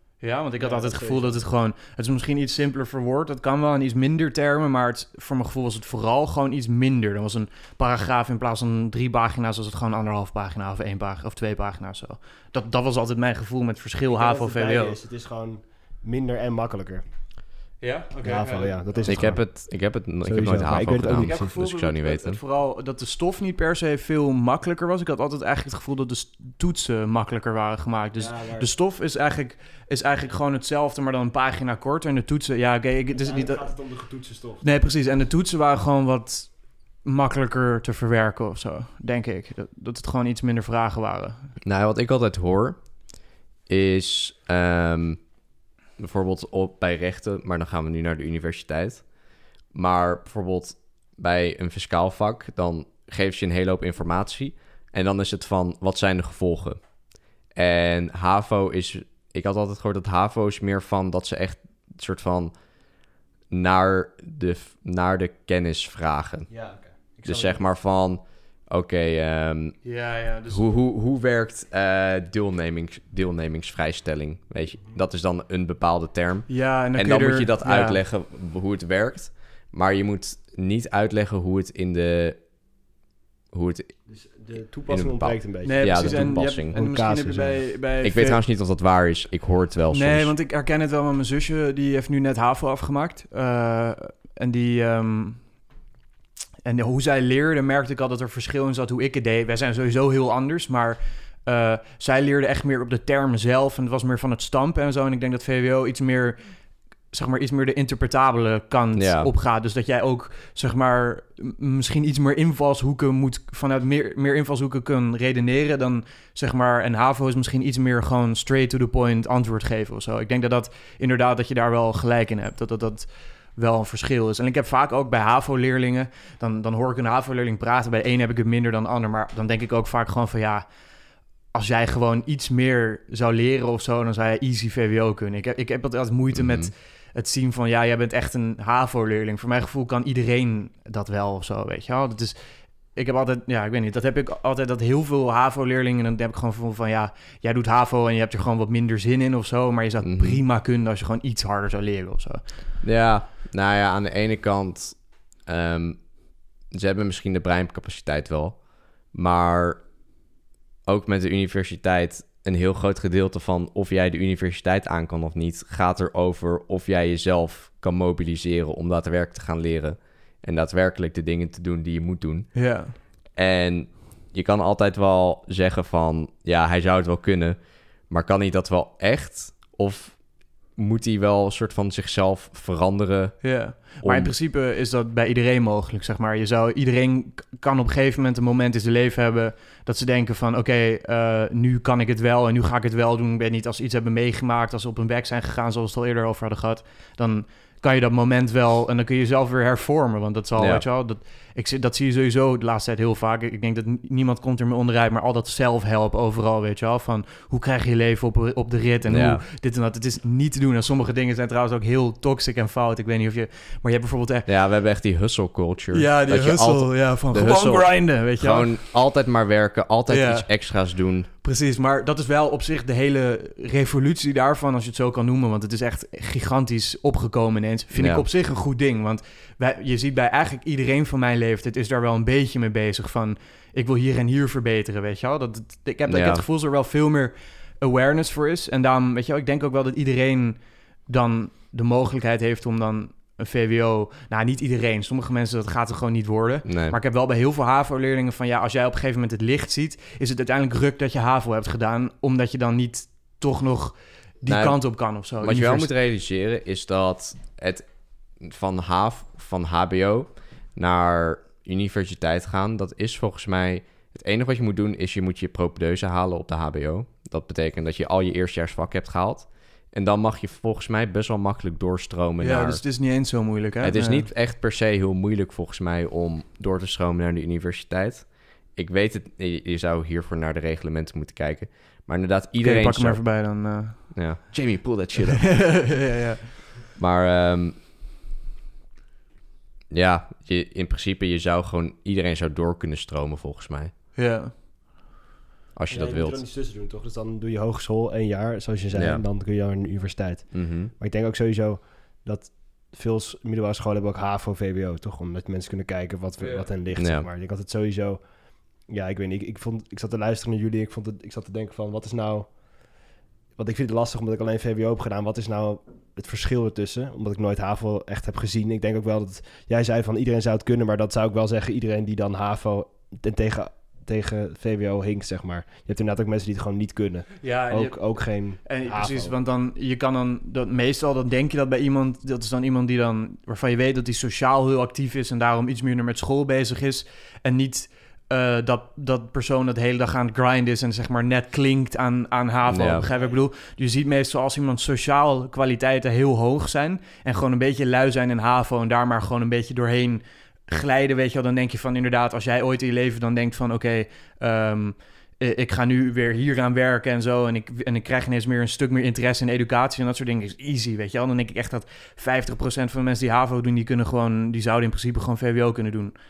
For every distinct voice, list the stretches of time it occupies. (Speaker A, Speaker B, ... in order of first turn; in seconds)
Speaker A: 0.2-15.0, 17.8-19.3, 21.1-33.7, 34.6-41.5, 69.8-70.7, 76.5-78.0, 85.6-88.4, 89.9-95.5, 96.7-106.6, 107.1-130.7, 131.5-152.7, 172.6-173.0, 183.4-214.5, 215.9-218.8, 220.1-220.6, 221.4-255.9, 272.4-274.3, 282.6-284.4, 285.2-286.6, 294.1-294.5, 306.4-306.7, 327.4-366.1
Speaker B: 0.6-1.4, 14.1-17.0, 18.2-21.4, 28.2-28.7, 33.1-34.6, 66.5-67.6, 84.1-87.7, 295.9-312.6, 313.6-329.3
Speaker C: 19.1-22.4, 41.6-42.9, 43.7-45.2, 46.0-49.1, 49.7-56.8, 57.5-62.5, 63.5-66.5, 67.2-70.0, 70.5-82.4, 83.5-84.0, 84.9-86.7, 88.0-90.3, 109.0-109.3, 136.3-136.7, 150.0-150.4, 152.8-156.1, 156.7-159.8, 160.8-172.7, 173.3-184.3, 200.6-200.8, 209.1-209.4, 214.5-221.3, 227.9-228.2, 236.1-236.4, 246.7-247.0, 254.5-272.8, 273.8-285.8, 287.0-287.8, 289.9-293.9, 295.8-296.4, 298.9-299.2, 300.5-300.9, 307.0-307.3, 342.7-343.1